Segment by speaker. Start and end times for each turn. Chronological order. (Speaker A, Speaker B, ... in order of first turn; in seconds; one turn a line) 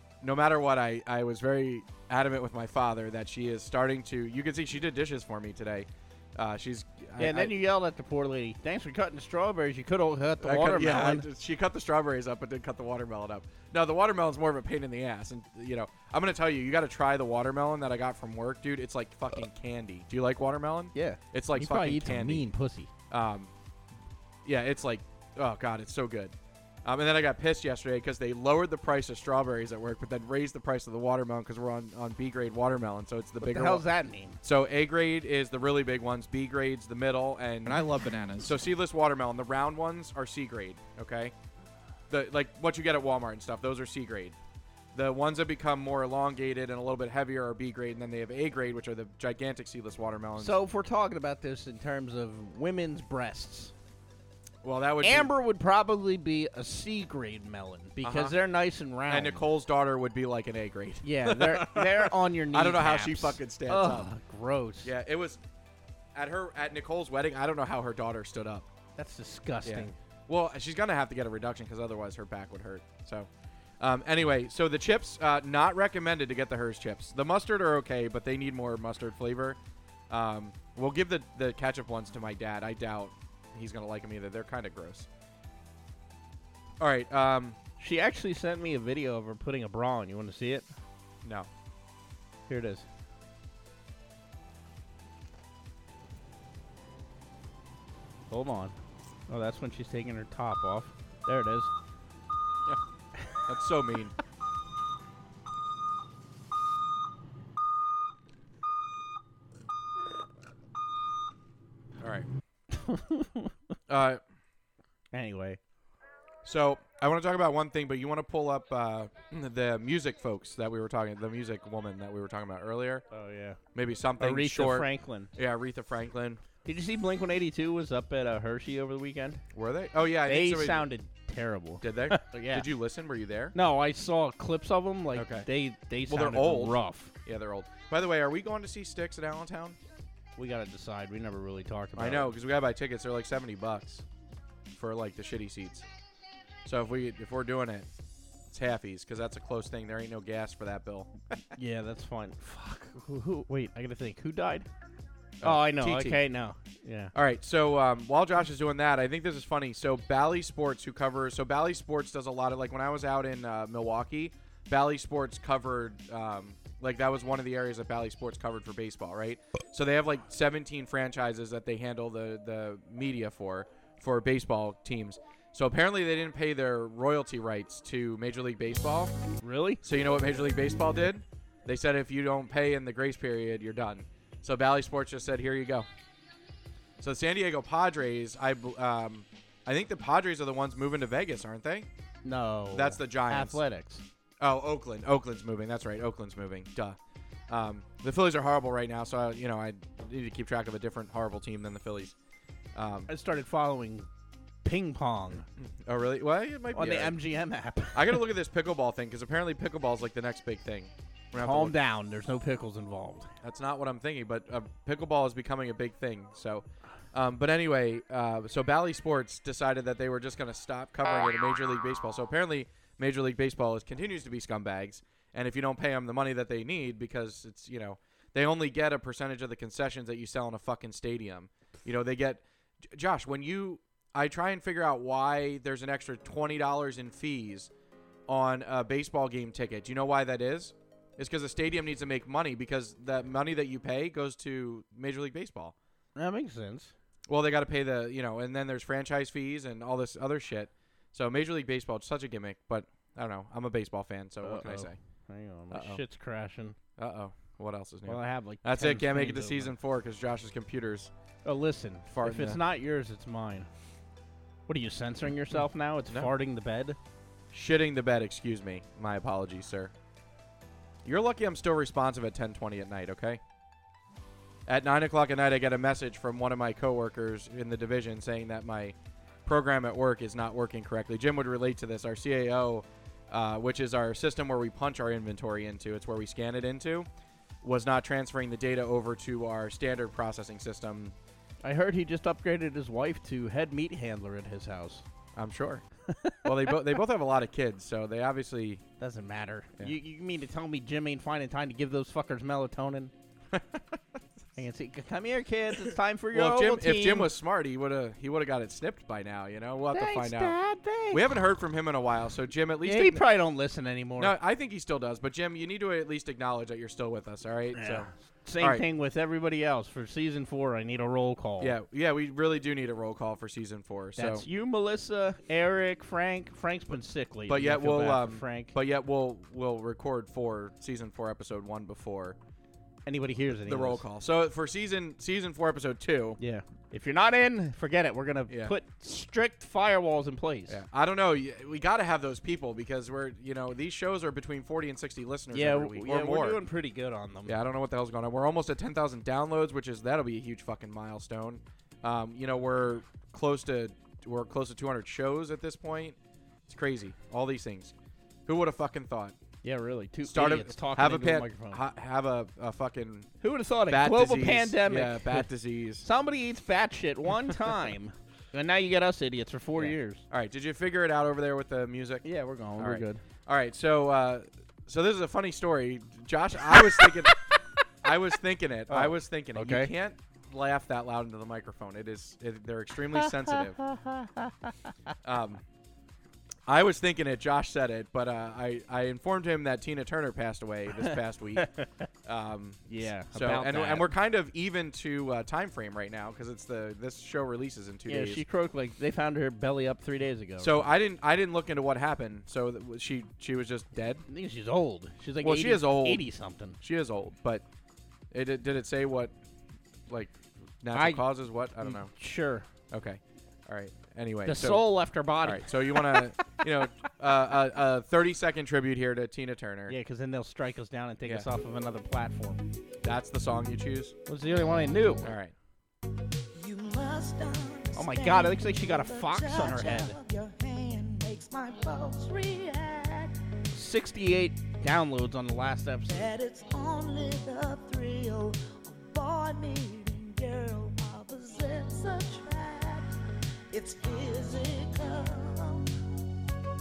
Speaker A: 0.2-7.5
Speaker B: 7.2-11.3
Speaker A: 10.4-22.5
Speaker B: 20.9-22.9
Speaker A: 23.1-23.5
Speaker A: 24.4-33.9
Speaker B: 33.4-34.4
Speaker A: 34.4-41.3
Speaker A: 42.1-44.4
Speaker A: 44.9-50.6
Speaker B: 50.4-53.7
Speaker A: 54.6-55.3
Speaker B: 55.0-59.5
Speaker A: 58.0-58.4
Speaker A: 59.1-64.1
Speaker B: 61.0-64.9
Speaker A: 64.8-65.4
Speaker A: 66.2-68.7
Speaker B: 69.0-70.0
Speaker A: 69.6-73.3
Speaker A: 73.8-79.6
Speaker A: 80.1-85.1
Speaker A: 86.8-87.6
Speaker B: 87.8-90.7
Speaker A: 91.2-91.5
Speaker B: 92.5-92.8
Speaker B: 98.3-98.8
Speaker B: 99.3-101.7
Speaker A: 103.4-104.1
Speaker A: 112.0-112.3
Speaker B: 112.7-113.5
Speaker A: 113.9-114.2
Speaker B: 115.1-115.6
Speaker A: 116.4-123.0
Speaker B: 123.1-123.6
Speaker A: 123.7-126.4
Speaker B: 124.2-125.3
Speaker B: 126.7-129.4
Speaker A: 129.5-130.9
Speaker B: 130.3-132.7
Speaker A: 131.8-133.6
Speaker B: 133.5-137.1
Speaker A: 135.1-135.5
Speaker A: 136.1-139.8
Speaker B: 140.4-142.3
Speaker A: 142.0-144.1
Speaker A: 144.7-145.9
Speaker A: 146.7-147.9
Speaker A: 148.5-151.1
Speaker B: 151.6-154.7
Speaker A: 155.4-156.2
Speaker B: 155.4-157.1
Speaker A: 157.1-179.2
Speaker B: 179.4-179.8
Speaker A: 179.8-185.9
Speaker A: 187.0-191.9
Speaker B: 192.2-194.0
Speaker A: 192.7-193.6
Speaker A: 194.4-197.0
Speaker A: 197.5-202.2
Speaker A: 202.8-203.1
Speaker B: 203.1-204.1
Speaker B: 204.6-205.5
Speaker A: 205.6-207.2
Speaker B: 206.7-208.2
Speaker A: 207.9-211.8
Speaker B: 211.4-213.3
Speaker A: 213.4-237.7
Speaker A: 238.3-245.8
Speaker B: 246.2-246.9
Speaker A: 247.3-255.0
Speaker B: 254.4-256.8
Speaker A: 255.7-256.0
Speaker A: 257.0-261.1
Speaker B: 258.1-259.8
Speaker B: 261.4-263.7
Speaker A: 262.1-262.6
Speaker B: 264.7-267.0
Speaker A: 267.5-269.9
Speaker A: 271.0-273.4
Speaker A: 274.7-287.1
Speaker A: 287.6-291.1
Speaker B: 291.6-295.1
Speaker A: 295.4-295.8
Speaker B: 296.1-296.8
Speaker A: 296.4-298.8
Speaker B: 299.0-303.1
Speaker A: 303.5-304.0
Speaker B: 304.6-307.3
Speaker A: 306.3-310.6
Speaker B: 309.9-311.3
Speaker A: 311.1-313.2
Speaker B: 312.8-314.4
Speaker A: 314.2-318.9
Speaker B: 317.7-321.8
Speaker A: 321.6-324.4
Speaker B: 324.2-328.7
Speaker A: 327.5-332.4
Speaker B: 333.1-334.0
Speaker A: 333.6-336.4
Speaker B: 336.4-340.8
Speaker A: 338.5-338.8
Speaker A: 340.7-346.6
Speaker B: 345.5-347.6
Speaker A: 347.5-357.9
Speaker A: 358.5-359.4
Speaker B: 359.6-361.8
Speaker A: 360.2-363.3
Speaker B: 363.4-365.5
Speaker A: 363.9-366.1
Speaker B: 366.0-370.2
Speaker A: 369.8-372.3
Speaker B: 372.2-373.2
Speaker A: 372.8-377.4
Speaker B: 376.8-377.1
Speaker A: 378.0-383.8
Speaker B: 378.9-379.9
Speaker B: 383.2-385.1
Speaker A: 385.2-385.6
Speaker A: 386.7-391.7
Speaker B: 391.0-392.1
Speaker A: 392.2-398.4
Speaker B: 392.9-394.1
Speaker B: 398.1-400.9
Speaker A: 400.6-404.3
Speaker B: 404.3-406.8
Speaker A: 405.4-406.3
Speaker A: 406.8-407.6
Speaker A: 408.3-409.4
Speaker A: 410.1-412.1
Speaker B: 410.9-411.3
Speaker B: 411.8-412.7
Speaker A: 412.9-414.9
Speaker B: 414.4-416.6
Speaker A: 415.4-420.0
Speaker B: 419.9-422.6
Speaker A: 421.2-421.5
Speaker A: 423.0-424.2
Speaker B: 424.3-425.3
Speaker A: 425.2-425.6
Speaker C: 426.5-433.3
Speaker B: 427.9-430.2
Speaker B: 433.7-436.3
Speaker C: 436.1-443.1
Speaker C: 443.7-445.9